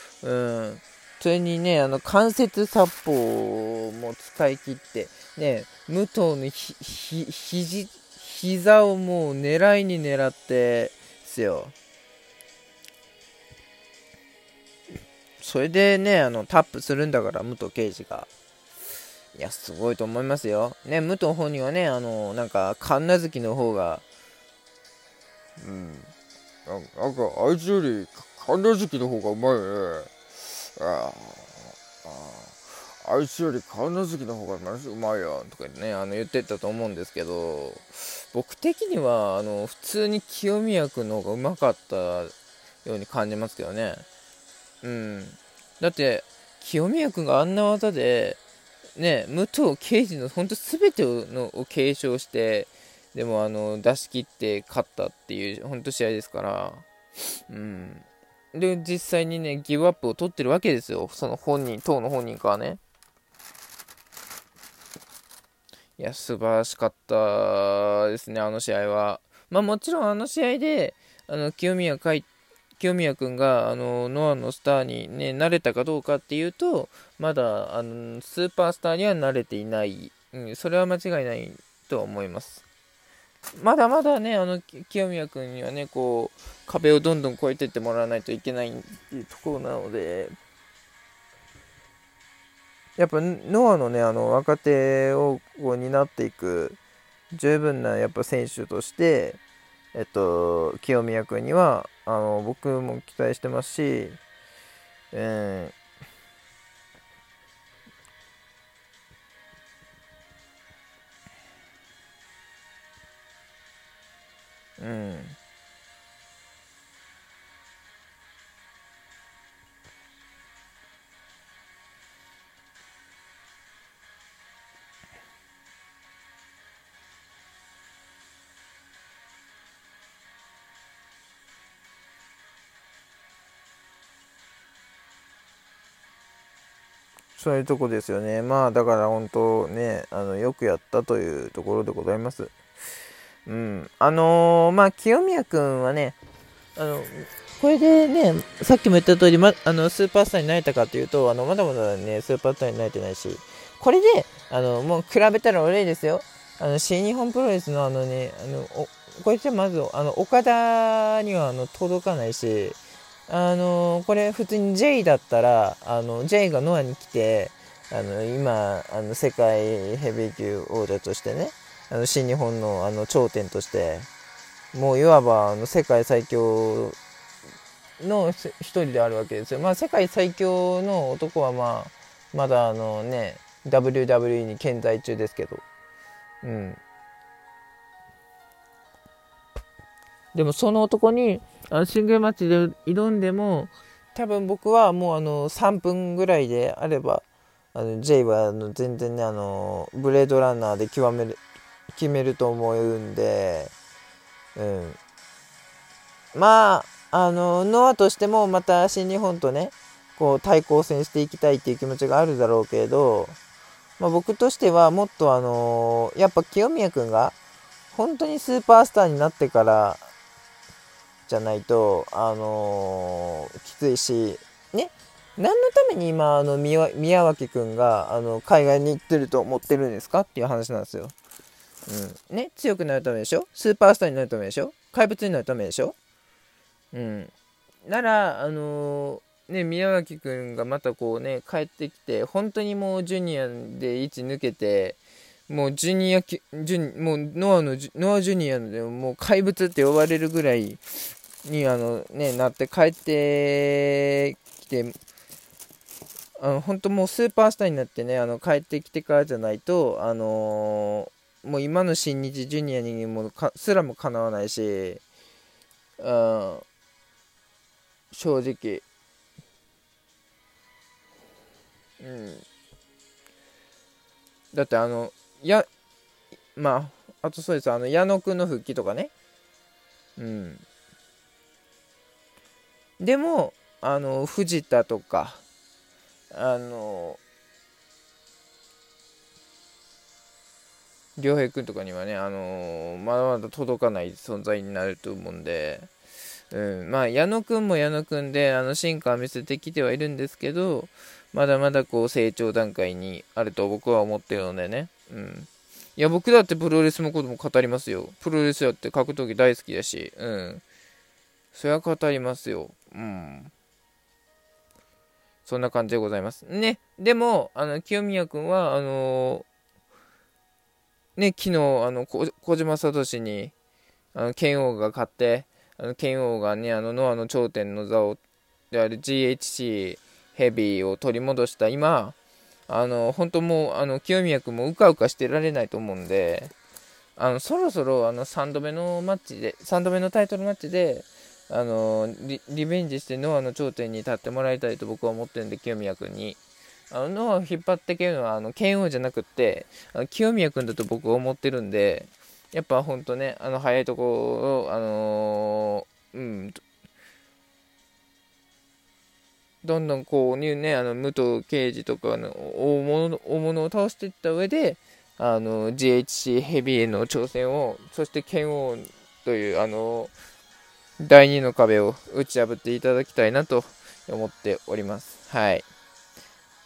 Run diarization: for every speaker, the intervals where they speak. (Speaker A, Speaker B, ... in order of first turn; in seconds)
Speaker A: 0.2-11.7, 15.4-18.3, 19.3-24.0, 25.6-26.1, 26.6-30.1, 30.8-44.0, 44.8-48.4, 49.0-56.8, 57.5-62.8, 66.0-82.6, 83.6-90.3, 93.0-96.8, 97.3-99.4, 99.9-104.2, 105.1-105.7, 114.8-115.4, 137.3-142.5, 143.4-146.2, 146.8-174.1, 174.7-177.0, 178.0-185.6, 186.4-186.8, 190.3-203.7, 204.6-205.0, 206.3-213.4, 214.0-217.4, 217.9-220.1, 221.3-231.1, 231.9-235.9, 236.9-237.3, 237.8-250.8, 251.4-254.9, 256.4-265.0, 266.0-266.6, 268.1-268.8, 272.0-272.4, 274.5-275.7, 276.5-279.1, 280.2-280.6, 283.0-285.4, 286.3-287.2, 291.2-295.9, 296.5-310.6, 311.5-313.5, 315.4-319.4, 321.1-323.5, 324.1-328.2, 328.7-332.1, 332.7-336.5, 337.2-356.6, 359.6-370.1, 371.0-375.6